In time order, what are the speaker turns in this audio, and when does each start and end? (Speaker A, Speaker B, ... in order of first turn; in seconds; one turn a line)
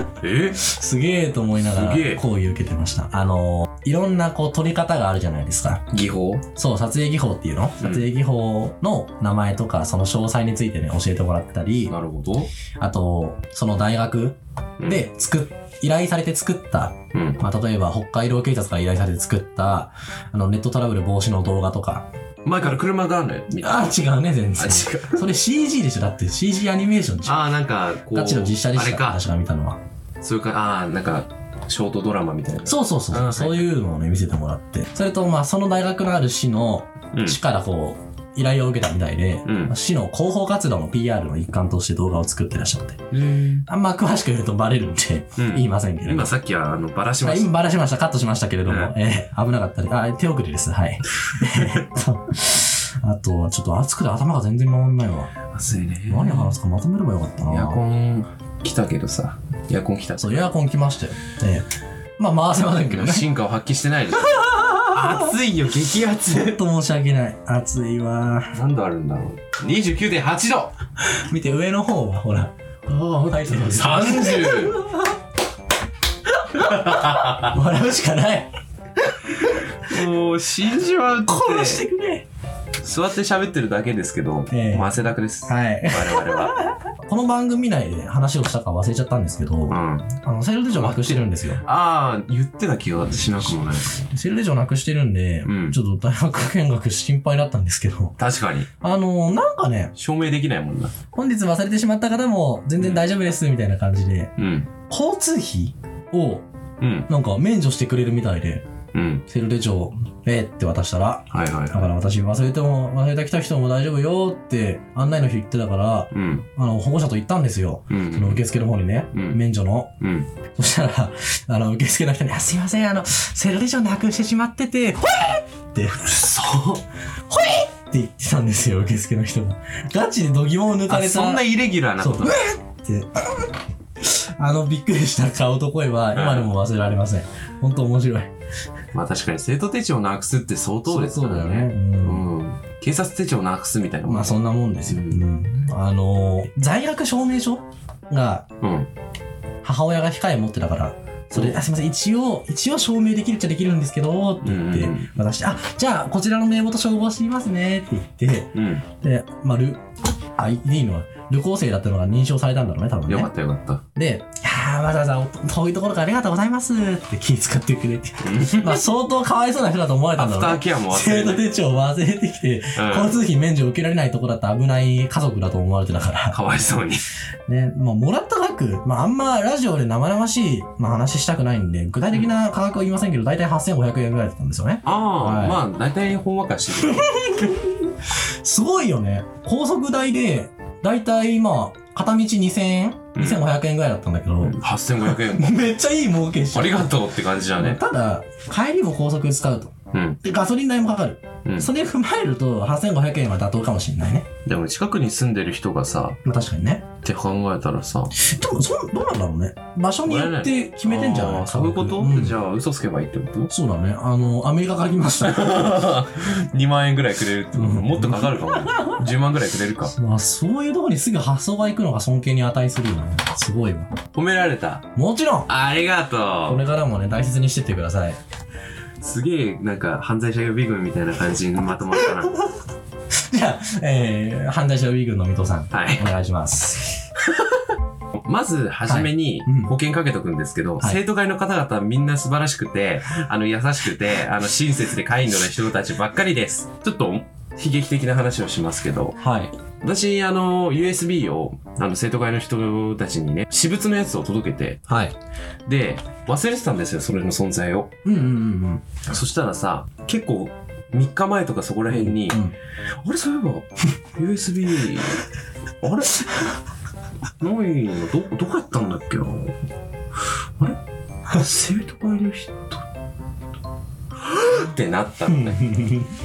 Speaker A: 0.2-0.6
Speaker B: 0.6-5.8
Speaker A: 1.7-2.2
Speaker A: 5.9-6.4
Speaker B: 6.6-11.9
Speaker A: 7.8-8.1
Speaker A: 11.9-12.5
Speaker B: 12.8-22.0
Speaker A: 14.8-15.0
Speaker A: 17.1-17.4
Speaker A: 22.4-23.9
Speaker B: 23.6-27.4
Speaker A: 24.6-25.2
Speaker A: 27.2-29.2
Speaker B: 28.1-29.8
Speaker A: 30.2-33.7
Speaker B: 32.7-43.0
Speaker A: 37.1-37.4
Speaker A: 39.4-39.7
Speaker A: 43.1-43.6
Speaker B: 43.7-46.3
Speaker A: 45.4-47.5
Speaker B: 47.2-55.3
Speaker A: 48.7-48.9
Speaker A: 51.5-51.8
Speaker A: 55.5-56.6
Speaker B: 56.1-57.8
Speaker A: 57.5-60.4
Speaker B: 60.2-61.6
Speaker B: 62.2-63.3
Speaker A: 62.9-66.6
Speaker B: 64.2-65.3
Speaker B: 66.3-68.5
Speaker A: 68.5-70.7
Speaker B: 71.2-75.1
Speaker A: 73.2-74.8
Speaker B: 76.3-79.7
Speaker A: 76.7-77.5
Speaker A: 79.8-81.8
Speaker B: 81.2-82.2
Speaker A: 82.8-86.6
Speaker B: 84.5-84.9
Speaker B: 85.5-91.6
Speaker A: 89.7-90.1
Speaker A: 90.7-93.9
Speaker B: 94.0-98.2
Speaker A: 95.4-95.8
Speaker A: 98.2-98.7
Speaker B: 98.8-99.9
Speaker A: 99.9-100.9
Speaker B: 101.1-104.3
Speaker A: 104.4-104.7
Speaker B: 104.9-106.4
Speaker A: 106.8-107.1
Speaker B: 107.1-108.7
Speaker A: 108.9-109.2
Speaker B: 109.3-119.9
Speaker A: 111.3-111.9
Speaker A: 116.1-116.4
Speaker A: 117.9-118.4
Speaker A: 119.1-119.4
Speaker A: 120.0-120.3
Speaker B: 120.6-126.2
Speaker A: 126.0-126.8
Speaker B: 127.3-131.4
Speaker A: 130.9-132.4
Speaker B: 132.0-133.5
Speaker B: 134.0-138.3
Speaker A: 136.1-136.5
Speaker A: 138.9-145.2
Speaker B: 140.9-142.2
Speaker B: 144.1-148.5
Speaker A: 148.6-148.9
Speaker B: 149.6-159.8
Speaker A: 151.3-151.6
Speaker A: 154.4-155.1
Speaker A: 158.6-158.8
Speaker B: 160.4-163.3
Speaker A: 163.1-163.8
Speaker B: 163.9-176.4
Speaker A: 168.2-168.8
Speaker A: 170.2-171.5
Speaker A: 172.8-173.2
Speaker A: 176.3-177.1
Speaker B: 177.5-185.6
Speaker A: 184.8-187.1
Speaker B: 186.8-187.7
Speaker B: 188.4-196.9
Speaker A: 193.2-193.4
Speaker A: 194.4-195.6
Speaker A: 196.5-197.8
Speaker B: 197.6-204.3
Speaker A: 199.9-200.2
Speaker A: 204.4-206.2
Speaker B: 206.2-206.8
Speaker A: 207.0-208.1
Speaker B: 208.2-212.3
Speaker A: 210.0-213.5
Speaker B: 213.5-215.7
Speaker A: 215.2-219.9
Speaker B: 217.5-219.0
Speaker B: 219.8-223.9
Speaker A: 224.1-224.9
Speaker B: 224.9-225.5
Speaker A: 225.5-226.6
Speaker B: 226.5-228.2
Speaker A: 229.0-232.3
Speaker B: 231.9-232.4
Speaker B: 233.3-237.0
Speaker A: 235.7-236.1
Speaker A: 237.3-237.6
Speaker A: 238.2-249.1
Speaker B: 238.9-239.7
Speaker B: 249.2-249.5
Speaker A: 249.8-254.8
Speaker B: 254.9-255.1
Speaker A: 255.7-257.9
Speaker B: 258.0-258.8
Speaker A: 259.1-262.4
Speaker B: 261.9-262.6
Speaker A: 263.0-265.2
Speaker A: 265.8-266.4
Speaker A: 267.4-269.6
Speaker A: 271.3-272.8
Speaker A: 274.3-275.6
Speaker B: 275.3-276.1